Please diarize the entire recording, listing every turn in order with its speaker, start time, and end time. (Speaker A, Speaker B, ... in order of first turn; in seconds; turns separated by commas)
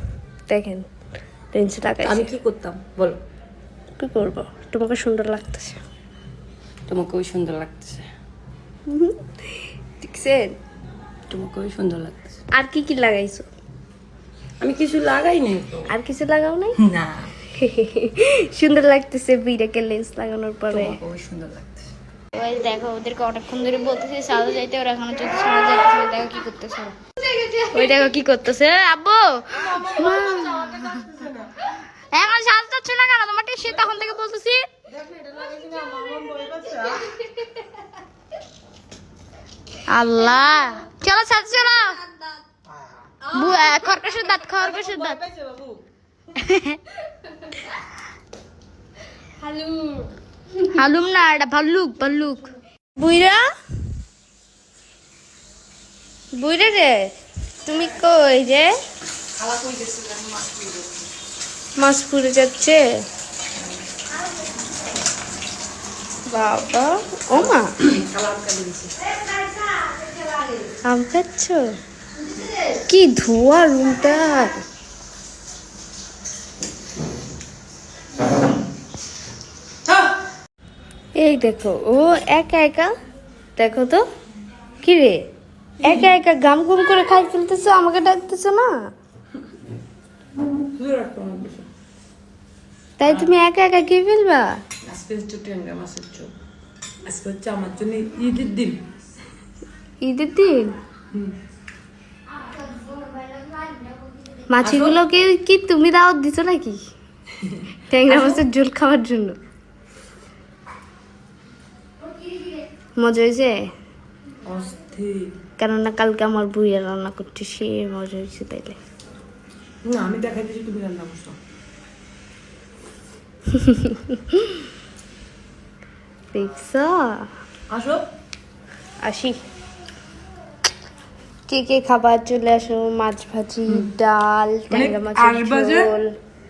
Speaker A: 0.5-0.9, Speaker A: 1.5-2.3, Speaker B: 2.0-3.2, Speaker A: 4.0-5.8, Speaker B: 6.9-8.1, Speaker A: 8.9-10.6, Speaker B: 11.3-12.4, Speaker A: 12.5-13.5, Speaker B: 14.6-15.9, Speaker A: 15.9-16.8, Speaker B: 16.8-17.3, Speaker A: 17.5-21.0, Speaker B: 20.7-21.9, Speaker C: 22.4-26.9, Speaker C: 27.5-30.9, Speaker A: 27.7-28.8, Speaker A: 29.8-30.9, Speaker C: 32.1-34.7, Speaker C: 39.9-42.0, Speaker C: 43.3-45.2, Speaker C: 46.4-46.8, Speaker C: 50.6-52.5, Speaker A: 53.0-53.5, Speaker A: 56.4-57.1, Speaker A: 57.6-58.7, Speaker B: 59.4-60.9, Speaker A: 61.8-62.8, Speaker A: 66.3-67.7, Speaker B: 67.3-69.0, Speaker A: 70.8-71.6, Speaker A: 72.9-74.6, Speaker A: 81.2-82.9, Speaker A: 83.6-84.0, Speaker A: 84.8-85.3, Speaker A: 85.8-88.9, Speaker B: 90.8-91.7, Speaker A: 93.0-94.6, Speaker B: 94.8-96.3, Speaker B: 97.0-98.8, Speaker A: 100.0-100.8, Speaker A: 104.5-106.8, Speaker B: 104.6-105.0, Speaker A: 107.9-109.4, Speaker B: 108.1-108.4, Speaker A: 113.0-113.7, Speaker B: 114.5-115.3, Speaker A: 115.6-118.8, Speaker B: 119.9-121.3, Speaker A: 123.5-124.6, Speaker A: 126.3-127.3, Speaker B: 127.7-128.0, Speaker A: 129.0-129.4, Speaker A: 131.5-136.1, Speaker B: 134.7-135.9